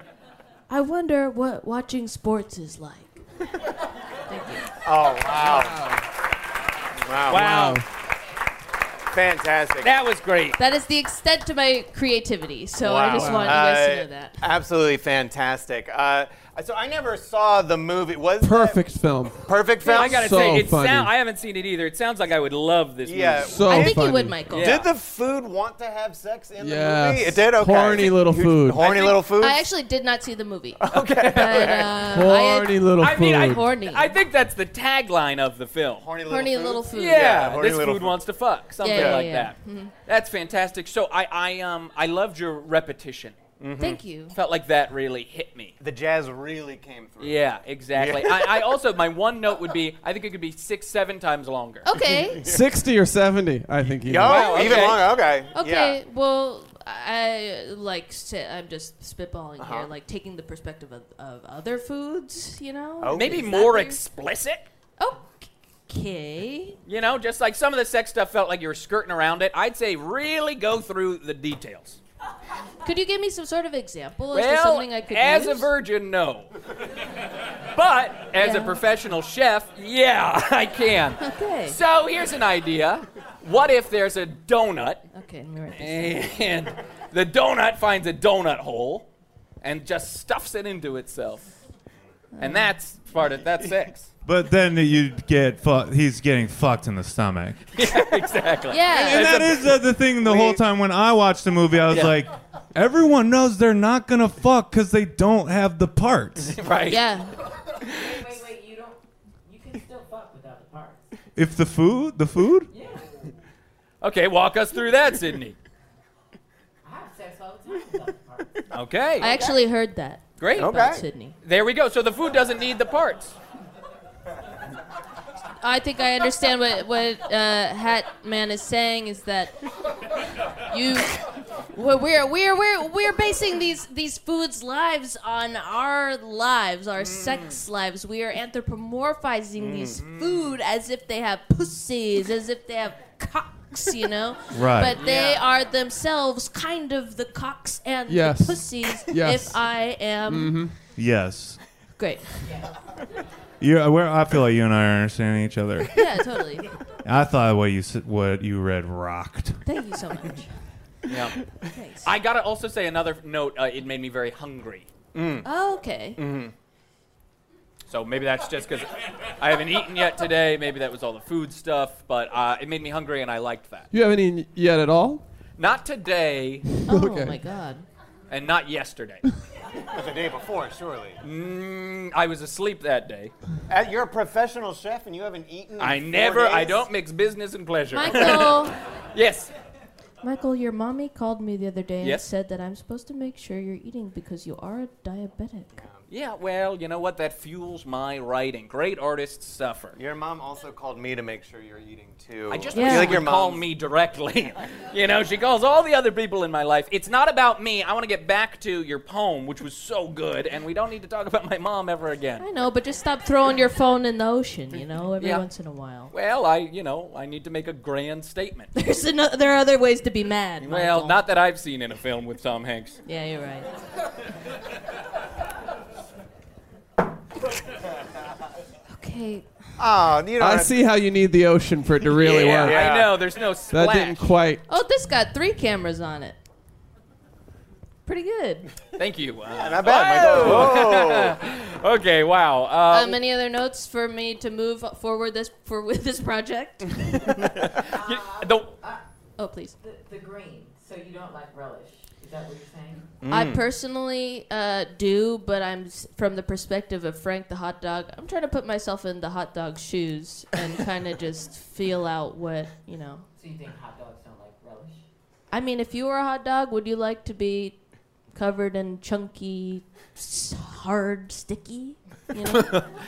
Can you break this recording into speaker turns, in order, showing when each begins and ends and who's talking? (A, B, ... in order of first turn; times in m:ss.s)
0:00.7-0:03.2 A
0:04.3-0:04.7 A
0:04.8-0:05.8 B
0:05.4-0:06.0 C
0:07.0-0:07.7 B
0:07.3-0:07.8 D
0:07.3-0:07.8 C
0:09.1-0:09.9 B
0:09.8-0:10.6 D
0:10.6-0:14.4 A
0:12.8-0:18.8 B
0:13.1-0:13.6 C
0:18.4-0:19.4 C
0:19.4-0:20.3 B
0:19.9-0:23.5 D
0:20.0-0:21.1 C
0:23.0-0:24.0 B
0:23.4-0:24.4 C
0:23.7-0:24.8 A
0:24.5-0:24.9 D
0:24.6-0:29.6 B
0:26.6-0:28.8 C
0:28.8-0:34.1 A
0:30.8-0:32.1 B
0:30.9-0:31.9 D
0:32.1-0:33.6 C
0:33.0-0:36.0 D
0:36.0-0:38.2 B
0:36.3-0:37.3 A
0:36.9-0:43.4 D
0:38.8-0:39.9 A
0:38.9-0:39.2 B
0:43.6-0:44.0 B
0:43.8-0:44.3 A
0:44.3-0:45.7 D
0:45.8-0:47.4 B
0:47.2-0:51.9 D
0:47.9-0:48.7 B
0:51.8-0:52.5 A
0:52.0-0:52.6 B
0:52.4-0:54.5 C
0:54.0-0:56.0 B
0:54.2-0:55.1 D
0:54.3-0:55.0 A
0:55.5-1:04.0 A
0:59.6-0:59.9 B
1:03.0-1:03.6 B
1:03.1-1:04.6 D
1:05.0-1:06.8 A
1:06.8-1:12.0 D
1:12.8-1:15.7 A
1:14.3-1:16.5 D
1:17.7-1:25.0 D
1:18.4-1:18.8 A
1:21.2-1:21.8 A
1:25.1-1:26.3 A
1:25.8-1:29.1 D
1:29.6-1:31.5 D
1:32.3-1:32.7 A
1:32.4-1:34.1 D
1:34.2-1:37.6 E
1:37.7-1:39.7 D
1:38.7-1:39.4 A
1:38.9-1:46.6 E
1:40.2-1:40.6 B
1:41.9-1:42.1 D
1:46.6-1:47.0 D
1:46.9-1:47.3 A
1:47.8-1:51.0 F
1:51.4-1:52.7 E
1:52.7-1:53.1 F
1:54.0-1:55.6 D
1:56.8-1:58.6 F
1:58.7-1:59.5 D
1:59.2-2:01.3 A
2:00.4-2:03.4 D
2:00.6-2:01.0 B
2:05.6-2:09.5 A
2:10.7-2:11.2 A
2:11.7-2:30.6 A
2:17.0-2:17.6 D
2:19.6-2:20.0 B
2:20.0-2:20.5 D
2:24.5-2:25.0 E
2:25.0-2:25.4 D
2:28.1-2:29.6 C
2:30.3-2:30.7 C
2:30.9-2:31.6 E
2:32.0-2:32.4 A
2:32.5-2:32.7 F
2:33.6-2:35.9 E
2:35.9-2:36.7 A
2:37.0-2:39.6 E
2:39.6-2:40.5 A
2:41.1-2:41.4 D
2:41.7-2:42.1 A
2:42.0-2:44.9 D
2:45.1-2:45.4 B
2:45.4-2:46.2 A
2:46.2-2:46.5 B
2:47.9-2:53.9 D
2:53.9-2:55.2 C
2:55.6-2:56.7 D
2:56.9-2:57.4 C
2:56.9-2:57.8 A
2:58.3-2:59.2 D
2:59.9-3:01.2 B
3:01.2-3:03.3 D
3:03.7-3:06.8 B
3:05.8-3:09.5 D
3:07.9-3:08.8 A
3:10.2-3:15.7 A
3:16.1-3:20.0 D
3:20.0-3:23.6 B
3:22.5-3:32.4 D
3:22.7-3:23.2 A
3:32.4-3:36.1 A
3:36.1-3:38.7 D
3:38.7-3:41.2 A
3:40.6-3:43.0 D
3:43.0-3:43.7 A
3:48.9-3:49.5 A
3:49.8-3:50.7 B
3:50.4-3:52.9 C
3:52.2-3:54.3 D
3:52.2-3:53.2 B
3:53.7-3:54.6 C
3:54.7-3:56.4 A
3:58.0-3:58.7 A
3:59.0-4:03.2 D
3:59.6-4:01.4 B
4:02.9-4:07.1 A
4:07.4-4:08.7 D
4:07.9-4:09.0 F
4:09.4-4:09.8 A
4:09.8-4:13.1 F
4:13.2-4:13.6 B
4:13.3-4:23.2 A
4:23.4-4:25.0 F
4:25.5-4:27.8 A
4:28.3-4:32.8 A
4:32.5-4:32.8 D